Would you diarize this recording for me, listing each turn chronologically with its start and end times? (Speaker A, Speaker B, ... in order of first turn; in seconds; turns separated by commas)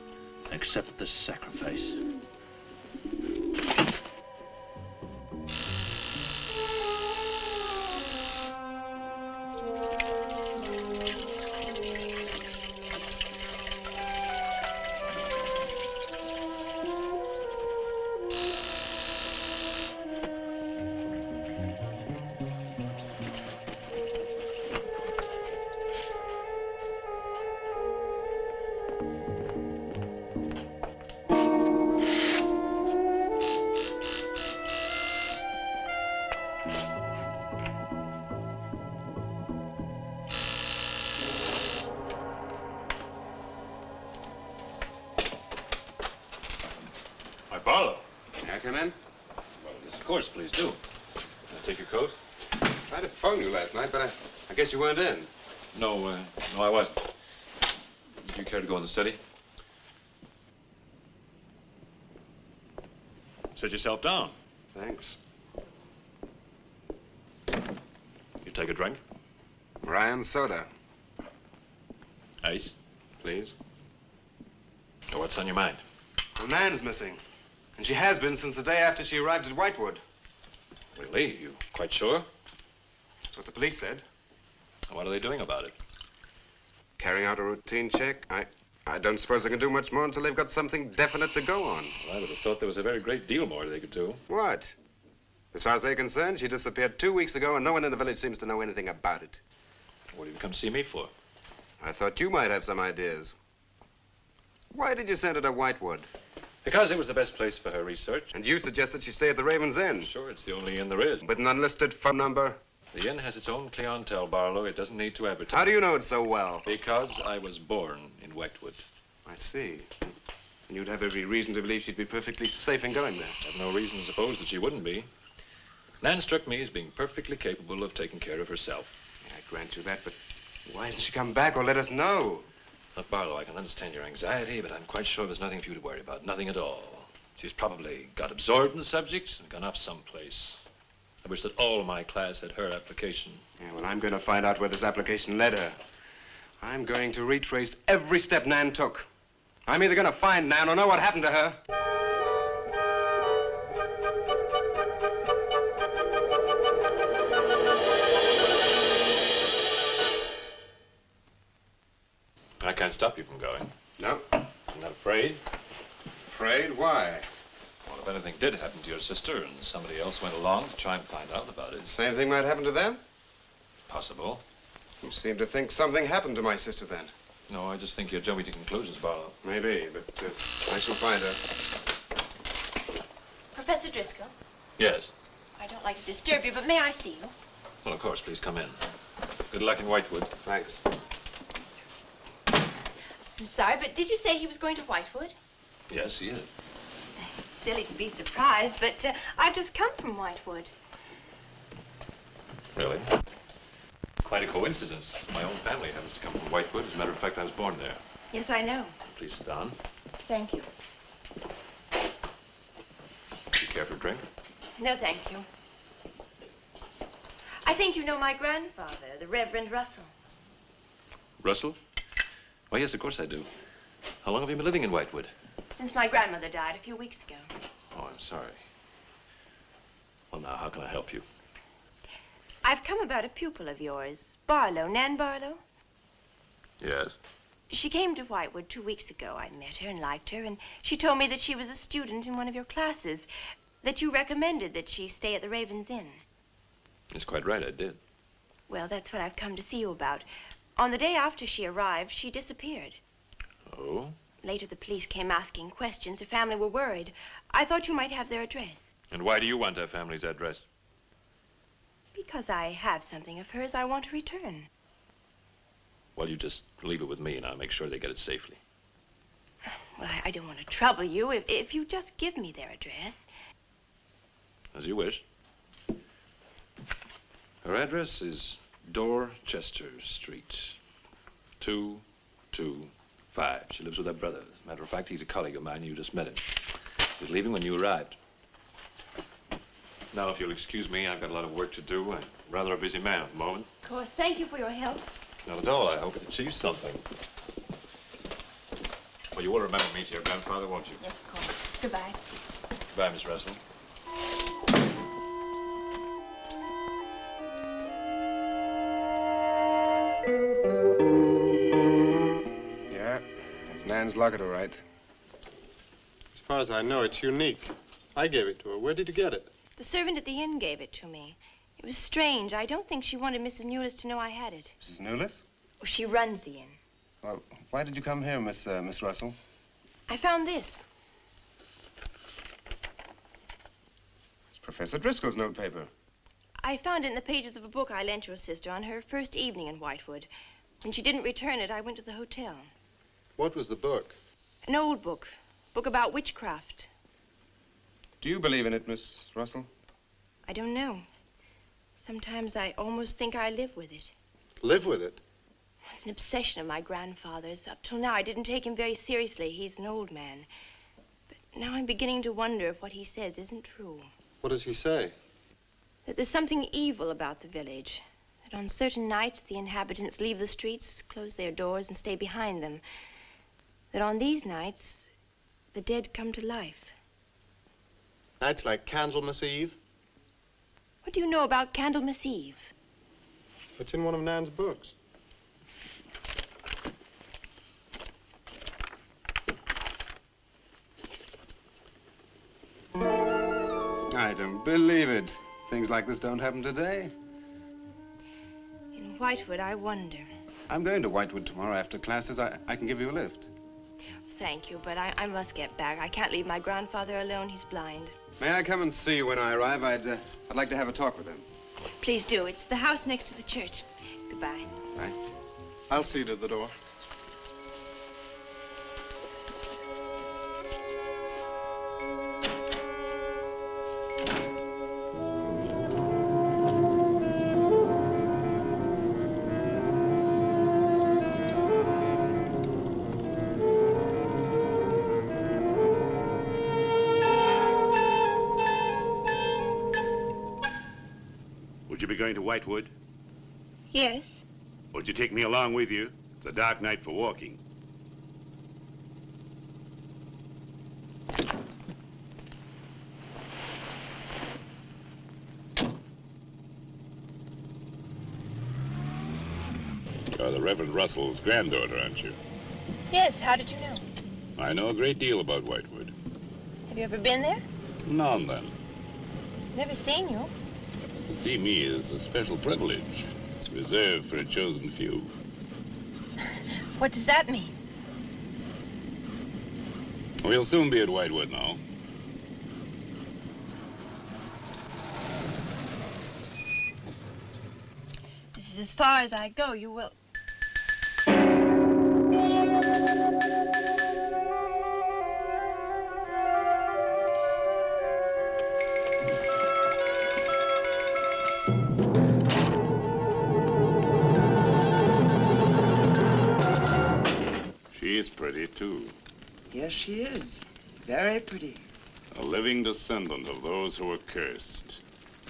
Speaker A: 0.5-2.0, Speaker A: 47.5-48.0, Speaker B: 48.4-49.0, Speaker A: 49.6-50.8, Speaker A: 51.5-52.2, Speaker B: 52.9-55.3, Speaker A: 55.7-57.0, Speaker A: 58.2-59.2, Speaker A: 63.5-64.3, Speaker B: 64.8-65.2, Speaker A: 68.4-69.0, Speaker B: 69.8-70.7, Speaker A: 72.4-72.8, Speaker B: 73.2-73.5, Speaker A: 75.1-75.8, Speaker B: 76.4-77.2, Speaker B: 77.8-80.0, Speaker A: 81.0-82.3, Speaker B: 83.3-84.0, Speaker A: 84.9-85.7, Speaker B: 87.0-92.0, Speaker A: 92.0-94.2, Speaker B: 94.3-94.8, Speaker B: 95.5-99.4, Speaker A: 100.1-101.1, Speaker B: 101.8-103.3, Speaker B: 104.7-106.1, Speaker A: 106.6-108.3, Speaker B: 108.3-110.1, Speaker A: 110.0-111.3, Speaker B: 111.2-112.6, Speaker A: 112.9-115.8, Speaker B: 115.5-116.7, Speaker A: 116.7-118.8, Speaker B: 119.3-120.2, Speaker B: 120.7-123.4, Speaker A: 123.4-125.1, Speaker A: 126.0-129.0, Speaker B: 129.2-132.5, Speaker A: 133.0-140.6, Speaker A: 141.2-143.4, Speaker B: 143.6-145.8, Speaker B: 146.6-149.1, Speaker B: 149.7-151.6, Speaker A: 162.6-163.7, Speaker B: 164.0-164.2, Speaker A: 164.7-165.4, Speaker B: 166.3-167.3, Speaker A: 167.8-171.9, Speaker B: 171.8-173.0, Speaker A: 173.9-174.4, Speaker B: 175.0-177.1, Speaker A: 177.5-179.4, Speaker B: 179.4-181.4, Speaker C: 183.5-184.3, Speaker A: 184.8-185.1, Speaker C: 185.6-187.3, Speaker A: 187.8-188.8, Speaker A: 189.5-190.3, Speaker B: 190.4-190.8, Speaker C: 193.4-195.3, Speaker A: 195.9-196.5, Speaker C: 197.2-200.7, Speaker A: 202.8-203.1, Speaker A: 204.2-208.0, Speaker C: 208.3-208.9, Speaker A: 209.1-209.8, Speaker C: 210.3-210.7, Speaker A: 213.5-214.2, Speaker C: 214.8-215.5, Speaker C: 217.6-220.1, Speaker A: 221.4-221.8, Speaker A: 222.7-223.5, Speaker A: 224.2-225.3, Speaker C: 225.7-227.5, Speaker A: 227.9-228.6, Speaker A: 230.3-231.2, Speaker C: 232.6-235.6, Speaker A: 236.8-237.2, Speaker C: 237.7-243.3, Speaker C: 243.8-246.2, Speaker A: 247.1-248.0, Speaker C: 248.7-253.0, Speaker A: 253.7-254.2, Speaker C: 254.4-258.9, Speaker A: 259.1-260.6, Speaker C: 262.1-264.7, Speaker A: 266.2-268.6, Speaker C: 269.7-273.3, Speaker A: 274.7-275.2, Speaker A: 277.6-280.8, Speaker A: 281.6-286.6, Speaker A: 287.2-288.2, Speaker A: 290.1-293.7, Speaker C: 293.8-295.1, Speaker A: 295.5-297.0, Speaker A: 299.3-301.1, Speaker C: 301.0-302.2, Speaker A: 302.9-303.6, Speaker B: 312.9-314.8, Speaker D: 316.3-319.5, Speaker C: 319.8-324.7, Speaker B: 324.8-325.4, Speaker C: 325.8-326.8, Speaker B: 327.2-329.4, Speaker C: 330.1-330.8, Speaker B: 334.5-335.9, Speaker C: 336.6-340.3, Speaker C: 340.8-342.7, Speaker D: 343.4-344.2, Speaker C: 344.6-346.9, Speaker B: 348.2-349.7, Speaker C: 350.5-351.1, Speaker C: 352.0-354.1, Speaker D: 354.6-355.2, Speaker C: 355.9-360.5, Speaker C: 361.3-364.1, Speaker D: 364.4-365.1, Speaker C: 366.1-372.8, Speaker C: 373.9-375.1, Speaker C: 375.7-376.9, Speaker D: 378.4-379.8, Speaker C: 381.0-382.7, Speaker D: 383.8-384.9, Speaker B: 394.1-397.1, Speaker C: 398.9-400.3, Speaker B: 400.7-403.5, Speaker C: 404.3-408.2, Speaker B: 408.4-411.5, Speaker C: 412.0-414.7, Speaker D: 415.9-416.7, Speaker E: 441.9-442.9, Speaker C: 443.9-444.4, Speaker E: 444.9-447.6, Speaker E: 460.3-462.4, Speaker C: 463.1-464.1, Speaker E: 464.6-466.1, Speaker C: 466.9-467.6, Speaker E: 468.1-468.7, Speaker C: 469.7-470.5, Speaker E: 471.3-475.3, Speaker C: 477.0-477.7, Speaker E: 480.4-481.8, Speaker C: 488.5-490.1, Speaker E: 507.9-509.1, Speaker F: 509.7-511.9, Speaker E: 512.3-515.0